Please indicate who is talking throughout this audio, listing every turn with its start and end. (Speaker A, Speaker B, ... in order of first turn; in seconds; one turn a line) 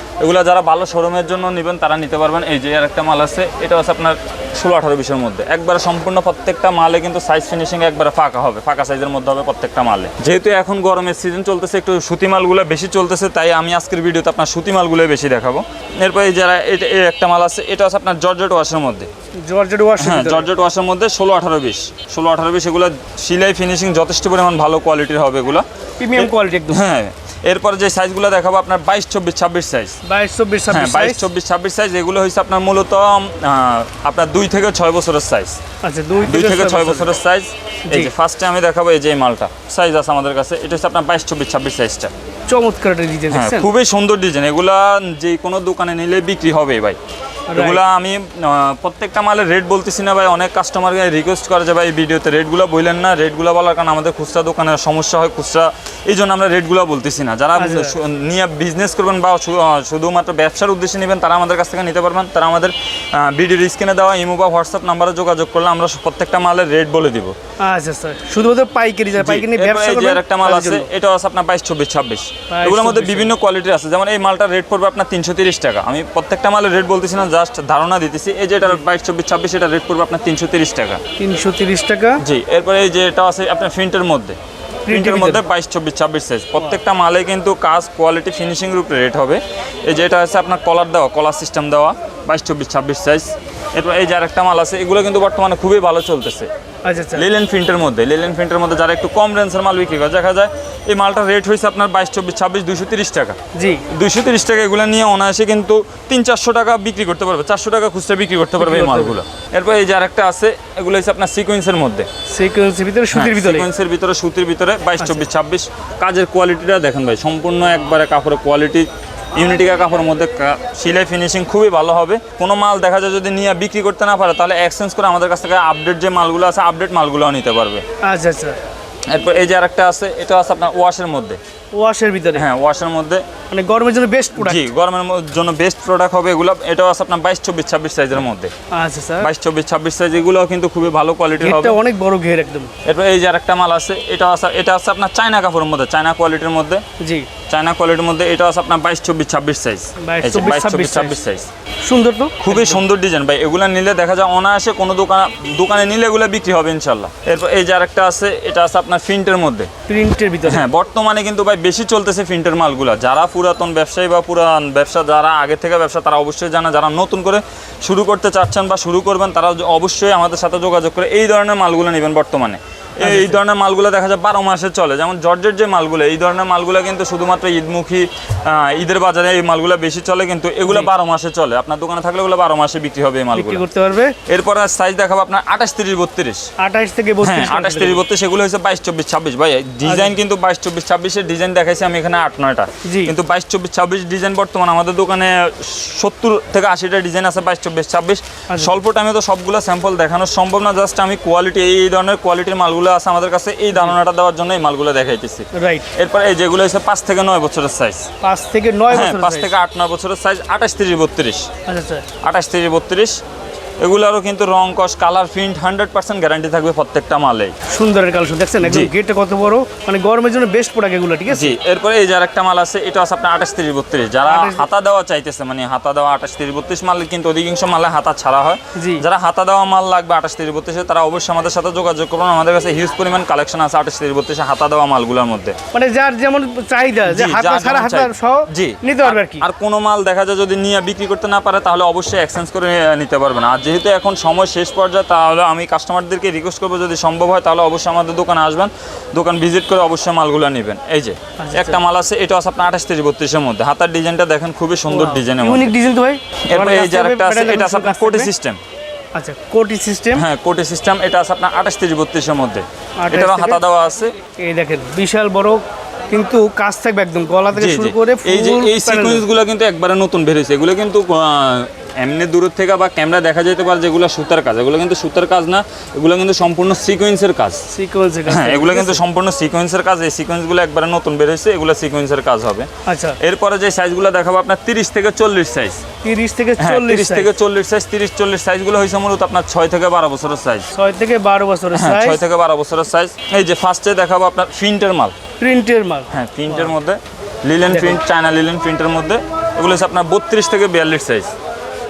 Speaker A: 0.2-19.1
Speaker B: 19.4-20.4
Speaker A: 20.0-30.0
Speaker B: 26.0-26.8
Speaker B: 30.0-31.2
Speaker A: 30.7-35.6
Speaker B: 35.8-37.1
Speaker A: 36.2-42.1
Speaker B: 37.9-38.1
Speaker B: 42.5-43.7
Speaker A: 43.3-47.0
Speaker B: 47.5-47.8
Speaker A: 47.5-67.3
Speaker B: 57.5-57.9
Speaker B: 67.6-70.9
Speaker A: 69.2-81.0
Speaker B: 72.5-73.3
Speaker B: 81.2-82.2
Speaker A: 82.2-84.4
Speaker B: 84.9-85.4
Speaker A: 84.9-96.5
Speaker B: 96.8-97.2
Speaker A: 97.1-103.3
Speaker B: 103.5-103.8
Speaker A: 103.9-112.1
Speaker B: 108.6-109.1
Speaker B: 112.3-113.7
Speaker A: 113.1-127.8
Speaker B: 128.0-128.6
Speaker A: 129.1-131.4
Speaker B: 131.7-132.4
Speaker A: 132.3-133.2
Speaker B: 133.5-134.6
Speaker A: 134.4-138.5
Speaker B: 138.7-139.3
Speaker A: 139.2-141.8
Speaker B: 141.4-142.7
Speaker A: 142.8-146.8
Speaker B: 147.0-147.3
Speaker A: 147.5-151.5
Speaker B: 150.0-151.1
Speaker B: 151.8-152.8
Speaker A: 152.4-159.7
Speaker B: 159.9-160.6
Speaker A: 160.4-183.6
Speaker B: 173.0-173.3
Speaker B: 183.3-184.1
Speaker A: 184.3-186.4
Speaker B: 186.6-188.0
Speaker A: 187.2-208.1
Speaker B: 189.8-190.1
Speaker B: 192.8-193.1
Speaker B: 198.5-198.8
Speaker B: 205.5-205.9
Speaker B: 208.2-209.5
Speaker A: 208.9-211.5
Speaker B: 211.7-212.1
Speaker A: 212.2-213.2
Speaker A: 213.8-217.5
Speaker B: 217.7-221.5
Speaker A: 218.6-218.9
Speaker A: 221.3-235.6
Speaker B: 224.3-224.6
Speaker B: 228.7-229.0
Speaker B: 235.7-239.4
Speaker A: 237.1-255.7
Speaker B: 251.4-251.8
Speaker B: 254.9-258.3
Speaker A: 256.4-258.6
Speaker B: 259.1-260.2
Speaker A: 260.1-264.1
Speaker B: 263.0-263.6
Speaker B: 264.4-269.2
Speaker A: 267.5-277.6
Speaker B: 277.7-279.0
Speaker A: 278.3-282.7
Speaker B: 282.9-283.2
Speaker A: 283.2-285.8
Speaker B: 286.0-287.3
Speaker A: 286.6-290.7
Speaker B: 290.7-292.2
Speaker A: 291.7-295.1
Speaker B: 295.4-296.7
Speaker A: 296.1-301.3
Speaker B: 297.7-298.0